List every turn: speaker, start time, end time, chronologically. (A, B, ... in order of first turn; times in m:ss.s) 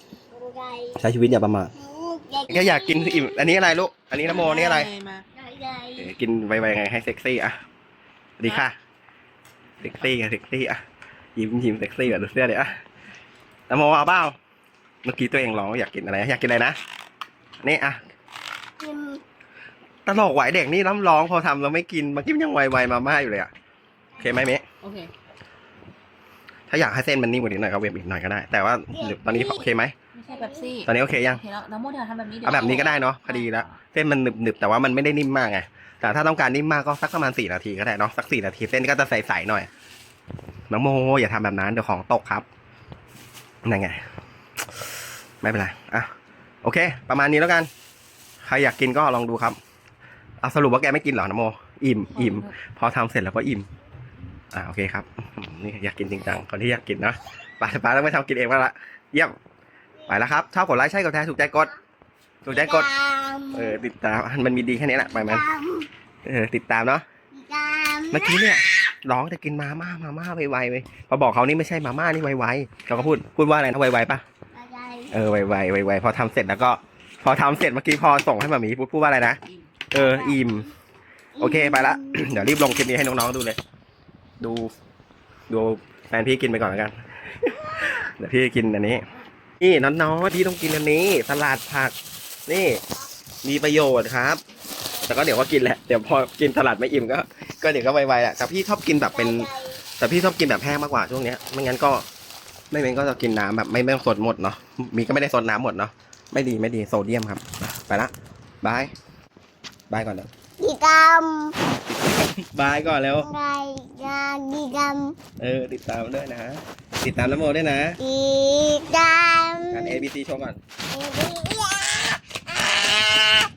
0:00.3-0:01.0 A
0:00.9-0:01.7 B
0:01.8-0:03.5 A
0:02.5-0:04.9 B
0:04.2-0:05.3 C
0:05.3-0:06.1 A
0:06.0-0:07.6 B
0:08.4-0:08.7 B
0:09.8-0:10.8 B
0:11.4-0:12.8 B
0:13.7-0:14.4 B
0:15.0-0:16.8 B
0:17.6-0:18.0 B
0:18.8-0:19.2 A
0:20.0-0:23.5 B
0:24.2-0:24.6 B
0:24.8-0:25.1 C
0:26.7-0:29.9 B
0:29.0-0:29.6 A
0:30.1-0:33.7 C
0:30.3-0:30.6 A
0:30.8-0:31.4 B
0:32.4-0:39.7 B
0:40.7-0:42.4 B
0:43.6-0:44.0 B
0:45.4-0:46.1 B
0:46.6-0:47.7 B
0:48.4-0:49.6 B
0:50.4-0:53.7 B
0:52.1-0:52.5 C
0:54.5-0:59.4 B
1:00.0-1:01.7 B
1:02.4-1:02.9 B
1:02.5-1:03.8 A
1:03.5-1:05.5 B
1:05.2-1:05.9 A
1:06.2-1:07.0 B
1:07.3-1:08.5 A
1:08.1-1:14.2 B
1:14.5-1:15.1 A
1:15.1-1:20.7 B
1:20.0-1:20.5 A
1:21.4-1:22.5 A
1:21.4-1:23.6 B
1:24.4-1:24.7 B
1:25.5-1:29.0 B
1:29.6-1:32.0 B
1:32.5-1:32.8 B
1:33.4-1:34.4 B
1:35.0-1:42.0 B
1:39.2-1:39.8 A
1:42.7-1:48.9 B
1:49.9-1:50.3 B
1:50.6-1:51.6 A
1:51.9-1:53.3 B
1:53.2-1:55.2 A
1:55.4-1:58.0 B
1:58.0-2:00.0 A
1:59.7-2:00.6 B
2:00.9-2:03.4 A